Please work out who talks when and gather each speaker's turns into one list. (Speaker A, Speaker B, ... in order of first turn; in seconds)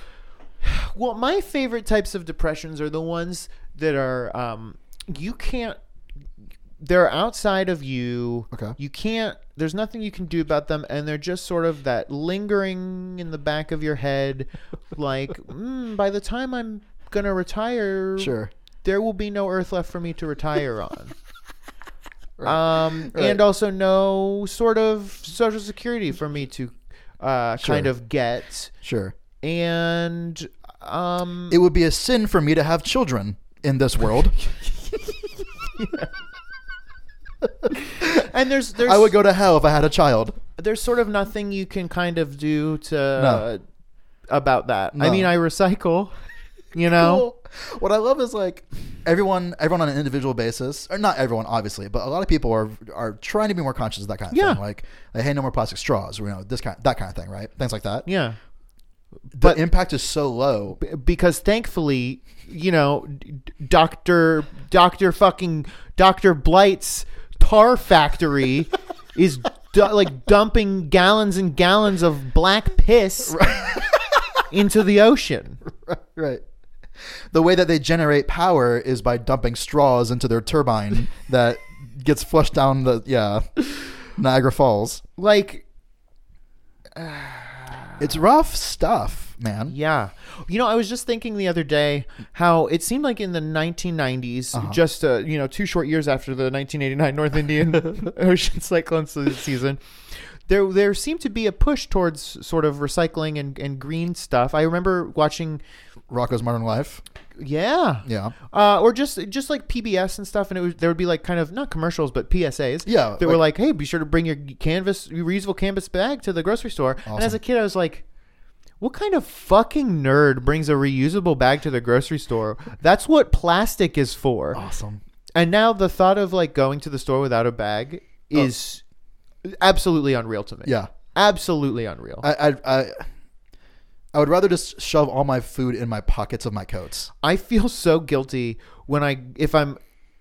Speaker A: 0.6-5.8, 6.8-21.1, 22.4-28.7, 29.4-31.6, 35.8-36.0, 38.0-39.1, 40.6-43.6, 44.3-46.1, 46.7-47.3, 54.3-54.6, 58.0-58.4, 59.3-59.6, 60.8-73.4, 74.5-75.6, 85.2-85.6, 87.0-88.1, 89.7-105.6, 107.4-118.0, 118.8-124.6, 125.3-128.8, 129.4-132.3, 137.2-139.8
Speaker B: 18.2-18.5, 22.4-23.4, 27.6-27.9, 28.8-29.1, 31.5-34.4, 38.0-38.3, 38.8-40.4, 43.2-43.4, 44.9-45.3, 46.9-58.0, 59.3-60.8, 73.3-74.4, 75.7-76.4, 77.3-85.0, 88.0-89.7, 94.5-94.8, 106.1-107.0, 108.0-108.3, 112.8-113.4, 117.0-117.4, 124.5-125.0, 130.6-130.9, 132.2-133.1, 134.1-137.1